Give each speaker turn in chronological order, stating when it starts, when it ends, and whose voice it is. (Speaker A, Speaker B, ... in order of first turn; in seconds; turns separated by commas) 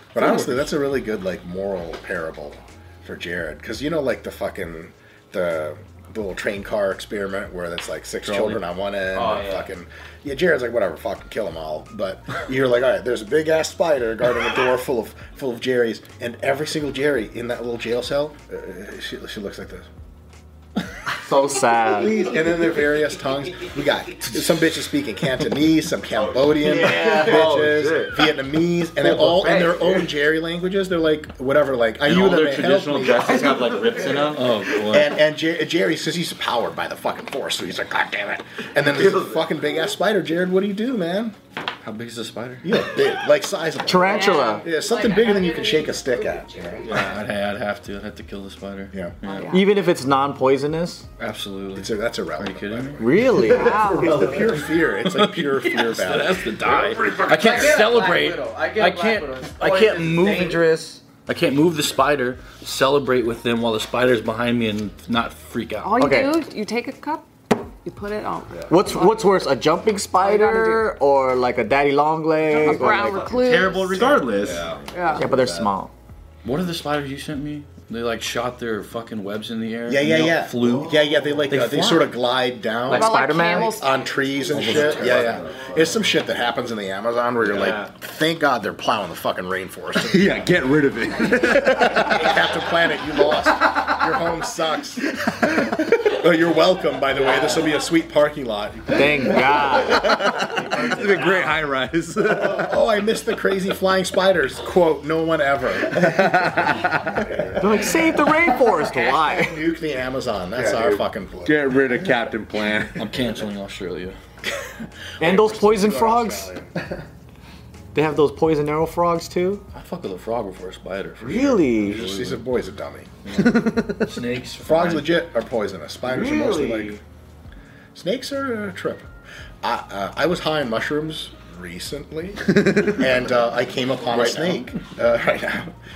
Speaker A: 0.1-19.9, Speaker B: 0.2-0.7, Speaker B: 8.2-8.6, Speaker C: 21.2-22.2, Speaker A: 21.9-33.5, Speaker D: 26.6-28.2, Speaker C: 26.7-27.2, Speaker E: 32.0-34.4, Speaker B: 34.3-35.1, Speaker A: 34.7-41.4, Speaker B: 41.8-42.8, Speaker A: 42.6-47.0, Speaker C: 43.9-44.6, Speaker F: 44.0-47.1, Speaker B: 46.9-49.5, Speaker F: 49.2-49.7, Speaker C: 49.5-51.0, Speaker B: 51.2-53.1, Speaker A: 51.7-53.1, Speaker C: 53.0-54.1, Speaker F: 53.3-54.3, Speaker A: 53.8-57.0, Speaker B: 55.0-60.6, Speaker D: 56.6-57.7, Speaker C: 57.2-61.0, Speaker B: 61.2-66.1, Speaker F: 65.8-69.2, Speaker C: 66.0-66.3, Speaker C: 68.7-73.3, Speaker F: 70.1-70.9, Speaker F: 72.5-74.2, Speaker E: 73.2-74.9, Speaker D: 74.3-75.7, Speaker F: 74.9-75.3, Speaker C: 75.1-75.9, Speaker B: 76.4-82.1, Speaker A: 79.8-90.5, Speaker F: 82.9-84.4, Speaker C: 82.9-83.8, Speaker D: 84.5-85.7, Speaker B: 84.6-84.9, Speaker D: 87.5-87.8, Speaker D: 90.0-92.2, Speaker A: 91.8-99.4, Speaker C: 98.9-100.6, Speaker D: 99.8-102.7, Speaker A: 102.5-106.4, Speaker C: 106.1-106.6, Speaker C: 107.5-109.6, Speaker A: 108.8-111.6, Speaker D: 110.5-113.1, Speaker B: 113.0-114.2, Speaker C: 115.2-116.5, Speaker A: 115.2-116.7, Speaker C: 117.9-119.6, Speaker B: 119.7-122.4, Speaker C: 121.2-122.1, Speaker A: 121.8-123.1, Speaker B: 123.2-125.1, Speaker A: 124.6-127.0, Speaker C: 126.1-127.0, Speaker A: 127.9-129.1, Speaker A: 129.6-135.7